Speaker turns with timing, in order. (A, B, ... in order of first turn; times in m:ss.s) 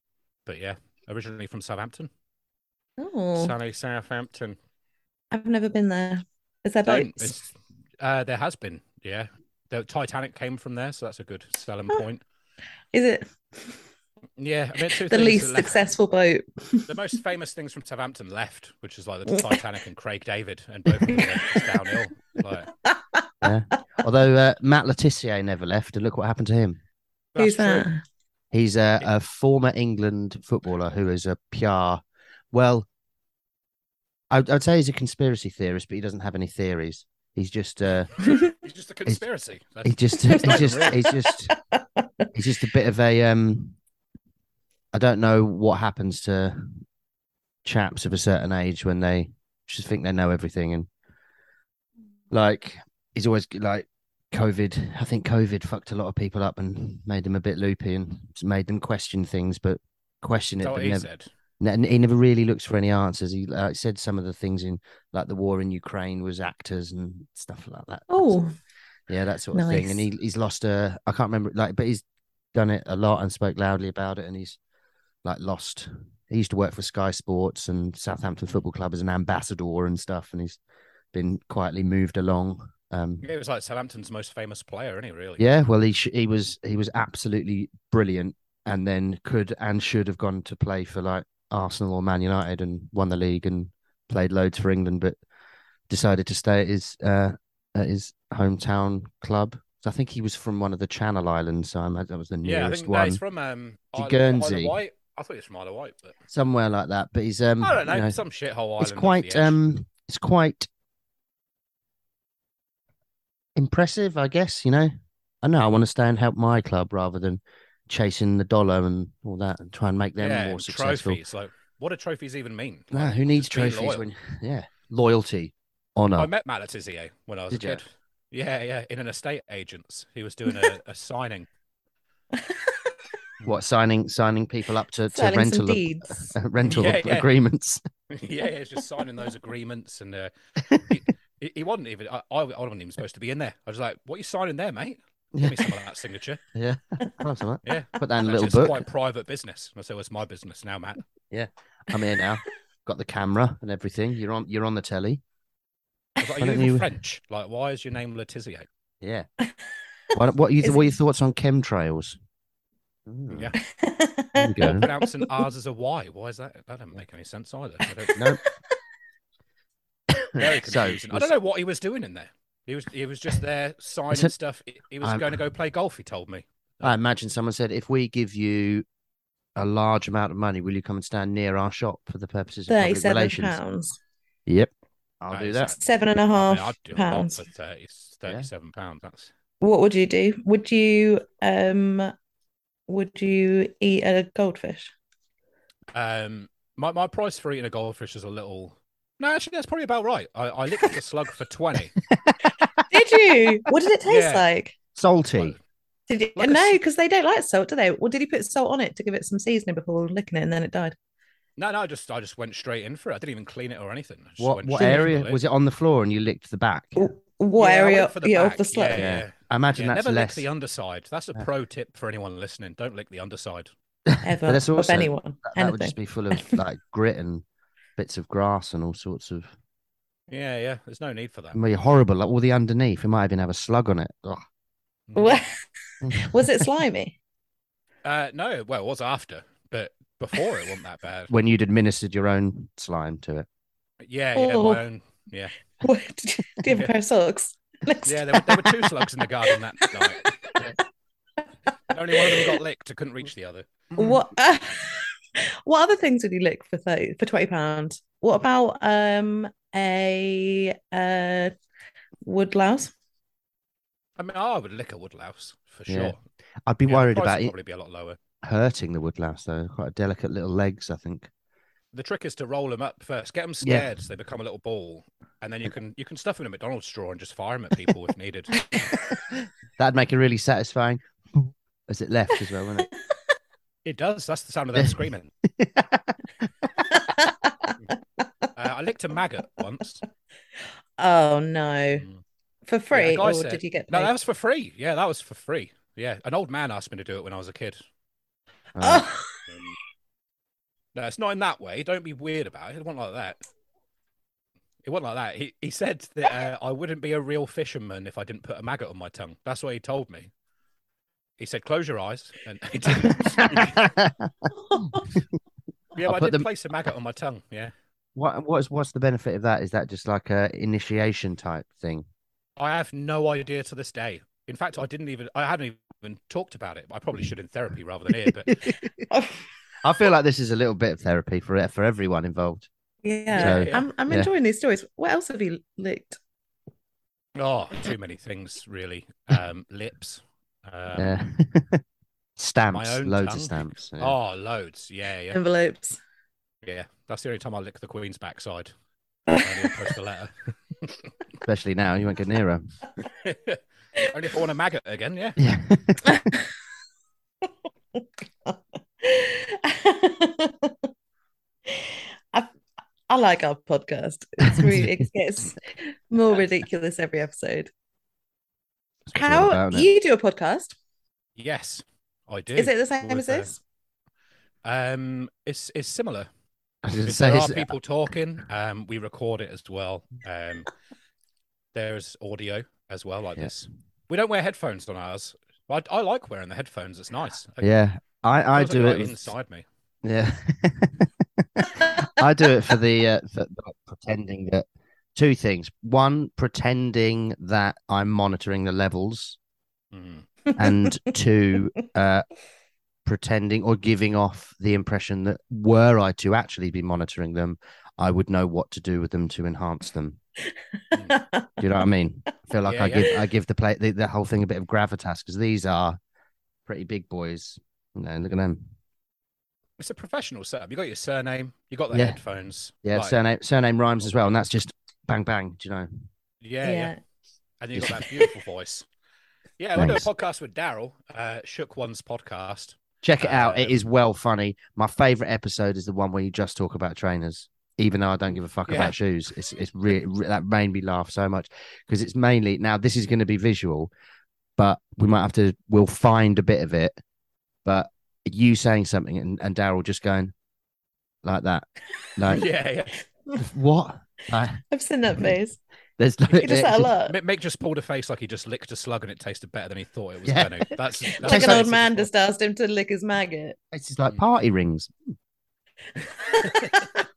0:00.5-0:02.1 A
0:03.0-0:03.5 B
0:03.4-0:04.6 A
0:05.3-0:07.4 B
0:06.9-0:12.2 A
0:12.9-0:13.8 B
0:14.4-0:15.9 A
0:14.9-0:16.9 B
0:16.9-0:22.7 A
0:21.0-0:21.6 B
0:23.4-0:26.8 C
0:27.4-0:27.9 A
0:27.4-0:28.0 B
0:28.5-0:32.0 C
0:32.5-0:32.9 C
0:34.3-0:38.1 C
0:38.3-0:41.1 A
0:39.8-0:41.5 C
0:40.3-0:42.3 B
0:42.4-0:43.8 C
0:44.9-0:46.8 C
0:47.6-0:50.9 C
0:52.3-1:01.1 C
1:00.6-1:01.3 A
1:01.6-1:08.4 C
1:08.1-1:08.6 B
1:09.1-1:12.0 C
1:09.5-1:10.0 B
1:12.5-1:14.6 C
1:15.2-1:20.6 C
1:21.1-1:23.2 C
1:23.2-1:25.5 A
1:25.4-1:35.2 C
1:35.9-1:43.2 C
1:42.4-1:46.2 A
1:43.9-1:44.8 C
1:46.3-1:48.2 C
1:47.6-1:49.6 A
1:48.8-1:50.7 C
1:53.6-1:54.9 C
1:55.4-2:01.2 C
2:00.2-2:04.1 A
2:02.9-2:06.3 C
2:06.1-2:11.5 A
2:07.5-2:07.8 C
2:12.4-2:12.9 B
2:13.4-2:17.8 C
2:15.1-2:16.3 B
2:16.6-2:17.3 A
2:18.1-2:26.4 A
2:25.4-2:25.6 C
2:26.6-2:28.8 C
2:27.6-2:31.0 A
2:31.3-2:35.2 C
2:36.2-2:38.7 A
2:36.4-2:36.9 C
2:40.1-2:42.2 C
2:40.6-2:40.9 B
2:43.1-2:43.5 C
2:43.3-2:43.6 A
2:43.6-2:45.3 B
2:44.4-2:44.8 C
2:44.6-2:48.2 A
2:50.4-2:51.3 C
2:50.4-2:56.9 A
2:55.0-2:55.4 C
2:56.8-2:58.8 C
2:59.6-3:03.6 C
3:02.7-3:04.0 B
3:05.2-3:05.7 C
3:05.3-3:05.8 A
3:05.8-3:07.4 B
3:06.3-3:09.3 A
3:09.6-3:12.1 B
3:12.9-3:14.9 B
3:15.9-3:21.9 A
3:22.9-3:24.8 B
3:24.1-3:24.5 A
3:25.0-3:25.6 C
3:26.1-3:30.9 B
3:26.4-3:26.8 A
3:31.6-3:35.4 A
3:34.4-3:37.1 C
3:34.8-3:35.1 B
3:37.0-3:39.1 B
3:37.6-3:43.7 A
3:39.0-3:40.5 C
3:44.1-3:47.4 C
3:44.2-3:46.6 B
3:48.0-3:49.5 C
3:50.3-3:51.6 A
3:51.5-3:54.4 C
3:55.1-3:55.4 A
3:55.2-3:55.6 B
3:56.0-3:56.3 C
3:56.1-3:57.2 B
3:58.0-4:01.3 A
4:01.3-4:03.5 C
4:04.0-4:05.6 A
4:04.4-4:04.8 B
4:05.8-4:09.0 B
4:08.1-4:10.7 A
4:11.9-4:13.9 A
4:12.1-4:12.6 B
4:14.0-4:21.5 B
4:22.2-4:22.9 B
4:24.2-4:26.2 A
4:25.9-4:27.5 C
4:26.9-4:28.2 A
4:28.4-4:31.3 C
4:31.9-4:38.5 A
4:33.6-4:33.9 C
4:39.8-4:42.9 C
4:43.8-4:45.3 A
4:44.8-4:45.1 C
4:45.6-4:46.0 C
4:47.0-4:47.7 B
4:48.6-4:50.0 A
4:51.0-4:52.0 B
4:51.9-4:52.2 A
4:52.7-4:54.1 B
4:52.9-4:57.8 A
4:58.8-4:59.1 C
4:58.8-4:59.3 B
4:59.5-4:59.8 A
5:00.9-5:03.4 A
5:04.8-5:10.3 A
5:11.4-5:13.8 A
5:13.1-5:14.1 C
5:16.0-5:17.7 A
5:16.0-5:16.5 C
5:18.2-5:22.1 C
5:22.6-5:28.6 A
5:28.5-5:28.8 C
5:29.1-5:29.4 B
5:29.8-5:32.7 C
5:33.0-5:36.2 B
5:33.3-5:34.3 C
5:33.4-5:33.8 A
5:37.4-5:41.2 A
5:40.9-5:41.8 C
5:42.4-5:44.2 C
5:42.7-5:45.4 A
5:45.3-5:46.0 B
5:46.6-5:48.7 A
5:49.3-5:49.7 B
5:49.4-5:50.9 A
5:51.4-5:52.7 C
5:53.2-5:55.4 A
5:55.4-5:56.2 C
5:58.5-6:00.8 B
6:01.7-6:02.5 B
6:03.1-6:07.7 B
6:04.5-6:04.9 C
6:09.1-6:09.9 C
6:09.1-6:10.8 B
6:11.4-6:13.5 A
6:12.6-6:13.6 B
6:14.6-6:16.3 A
6:16.8-6:17.7 C
6:17.0-6:20.7 A
6:21.7-6:27.7 A
6:27.6-6:29.3 C
6:28.5-6:29.6 A
6:30.0-6:31.1 C
6:31.8-6:34.6 C
6:35.2-6:39.4 C
6:39.9-6:40.3 A
6:40.6-6:42.3 C
6:43.1-6:50.2 C
6:50.9-6:51.5 B
6:51.6-6:56.0 C
6:52.6-6:53.1 A
6:56.6-6:58.7 C
6:59.8-7:03.2 A
7:01.9-7:02.2 C
7:02.8-7:06.1 C
7:04.0-7:04.3 A
7:06.4-7:06.9 A
7:06.6-7:07.0 B
7:07.6-7:08.9 A
7:07.8-7:08.0 C
7:09.6-7:13.8 A
7:09.8-7:10.1 C
7:13.0-7:23.9 C
7:18.7-7:18.9 A
7:24.6-7:27.0 C
7:27.6-7:30.3 C
7:31.2-7:31.6 C
7:32.2-7:32.5 C
7:32.3-7:32.9 A
7:33.4-7:34.6 C
7:34.7-7:35.6 B
7:36.0-7:36.9 C
7:36.4-7:37.1 B
7:37.1-7:42.1 A
7:40.2-7:40.7 C
7:41.2-7:43.6 B
7:41.2-7:41.8 C
7:43.7-7:44.9 C
7:46.2-7:46.8 B
7:46.4-7:46.9 A